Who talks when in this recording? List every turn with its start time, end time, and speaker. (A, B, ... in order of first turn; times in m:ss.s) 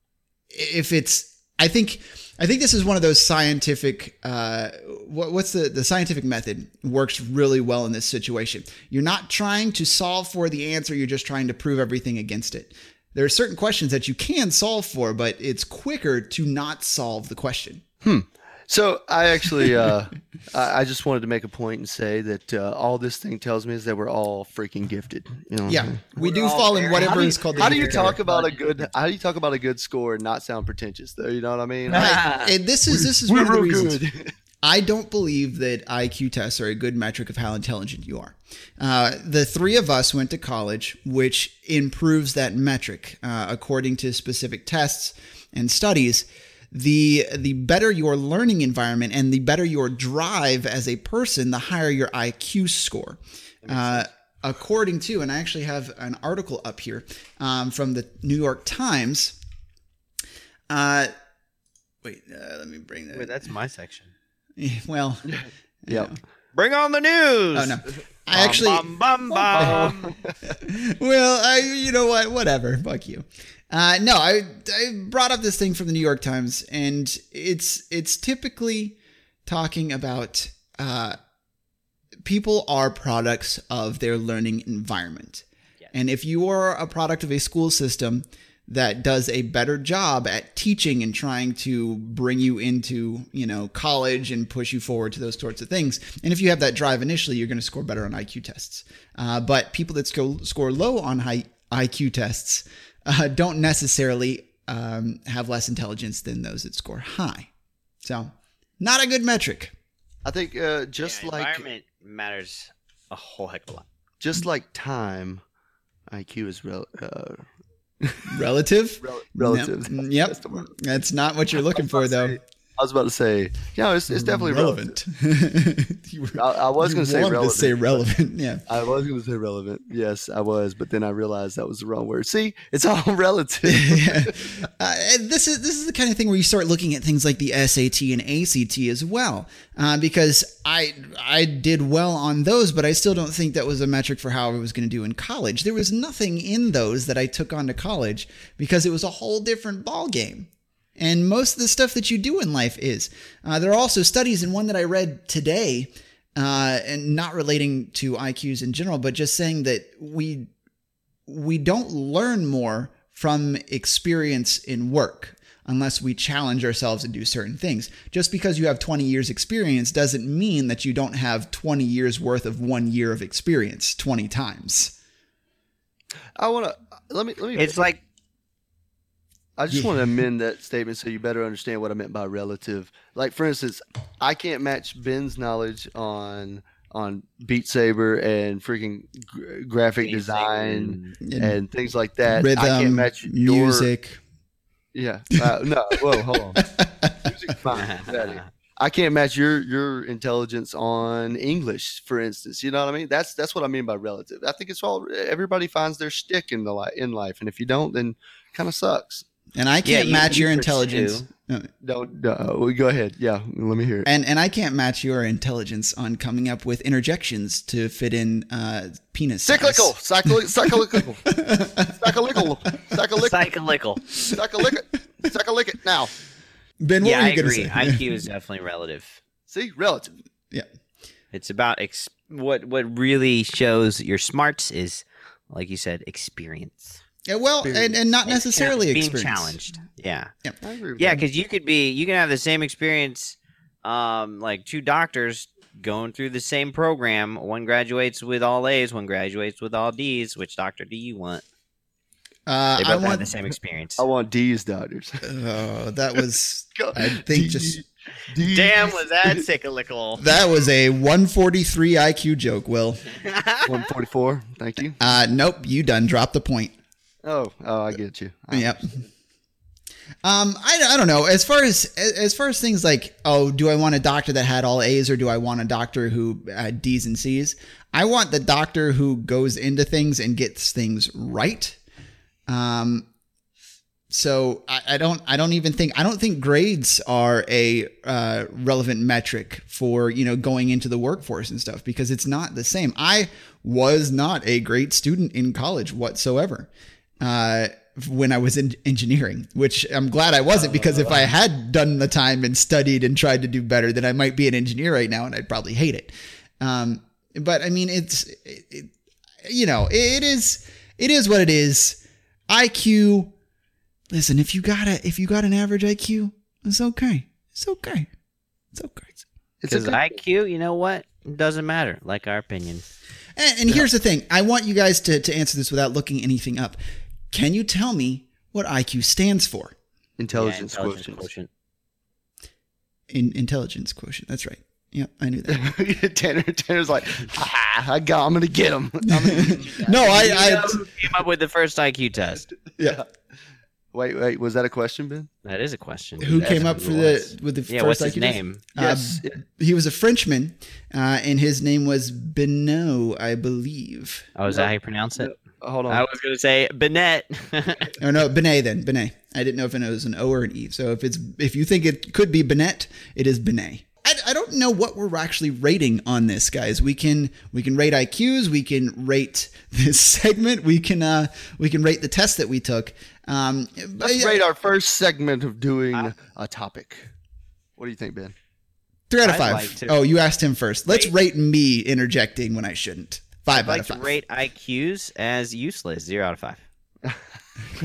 0:00.5-0:17.8 A
0:18.0-0:26.0 B
0:25.7-0:28.2 A
0:26.2-0:28.6 C
0:27.0-0:32.3 B
0:31.9-0:34.0 A
0:32.0-0:32.4 C
0:32.9-0:34.3 B
0:34.6-0:59.4 A
0:53.7-0:54.0 C
1:00.7-1:01.1 A
1:02.0-1:03.5 A
1:03.1-1:04.1 C
1:04.6-1:06.2 A
1:05.2-1:06.1 B
1:06.5-1:07.8 C
1:07.5-1:08.9 A
1:08.3-1:10.1 C
1:09.3-1:10.3 B
1:09.5-1:09.9 A
1:10.5-1:21.2 A
1:22.2-1:47.5 A
1:48.0-1:49.7 A
1:50.2-1:51.7 B
1:51.0-1:53.8 C
1:54.2-1:55.4 B
1:56.1-1:57.4 B
1:58.0-1:58.4 B
1:58.2-2:02.4 A
1:59.0-2:00.9 B
2:01.7-2:05.0 B
2:04.1-2:08.6 A
2:06.3-2:08.1 B
2:08.7-2:14.6 B
2:13.7-2:40.5 A
2:41.3-2:54.9 A
2:56.4-2:57.8 B
2:57.6-2:58.0 C
2:59.6-3:13.9 B
3:10.0-3:11.2 C
3:11.2-3:11.6 A
3:12.3-3:14.2 A
3:14.9-3:16.6 B
3:16.1-3:17.5 A
3:17.2-3:29.2 B
3:17.7-3:18.4 C
3:29.6-3:31.7 A
3:29.8-3:31.3 C
3:31.8-3:34.1 B
3:34.0-3:42.4 A
3:39.4-3:43.5 B
3:43.2-3:44.0 C
3:44.2-3:46.1 B
3:46.8-3:48.0 A
3:47.0-3:49.2 C
3:49.5-3:50.1 B
3:51.3-3:57.0 C
3:57.3-3:59.6 A
3:57.6-3:58.0 B
3:58.2-4:00.3 C
4:00.6-4:01.2 B
4:01.0-4:11.4 C
4:12.5-4:13.3 A
4:12.8-4:14.0 C
4:14.0-4:15.2 B
4:15.2-4:17.8 A
4:16.8-4:19.4 B
4:18.4-4:20.2 C
4:20.2-4:23.1 A
4:23.2-4:23.7 C
4:23.6-4:25.0 B
4:25.0-4:26.7 A
4:27.2-4:29.1 B
4:28.5-4:29.0 A
4:30.2-4:41.8 A
4:42.5-4:43.1 A
4:44.1-5:08.9 A
5:00.6-5:01.3 B
5:09.4-5:13.3 A
5:14.1-5:18.1 A
5:18.7-5:19.2 A
5:19.6-5:20.2 B
5:19.7-5:22.8 C
5:23.4-5:26.8 A
5:27.3-5:29.7 A
5:30.2-5:31.3 B
5:30.3-5:31.5 C
5:33.1-5:35.7 A
5:35.5-5:40.8 B
5:39.1-5:40.8 A
5:39.8-5:42.5 C
5:42.8-5:43.0 A
5:42.8-5:43.0 B
5:43.9-5:45.3 B
5:45.4-5:47.1 C
5:46.2-5:54.3 A
5:46.2-5:47.2 B
5:47.7-5:48.6 C
5:48.8-5:49.4 B
5:54.4-5:55.3 C
5:54.5-5:56.0 B
5:55.9-5:57.9 C
5:58.0-6:14.4 A
6:14.0-6:17.1 B
6:17.8-6:18.3 B
6:19.1-6:24.1 A
6:19.2-6:20.0 C
6:20.9-6:21.1 C
6:23.5-6:26.6 C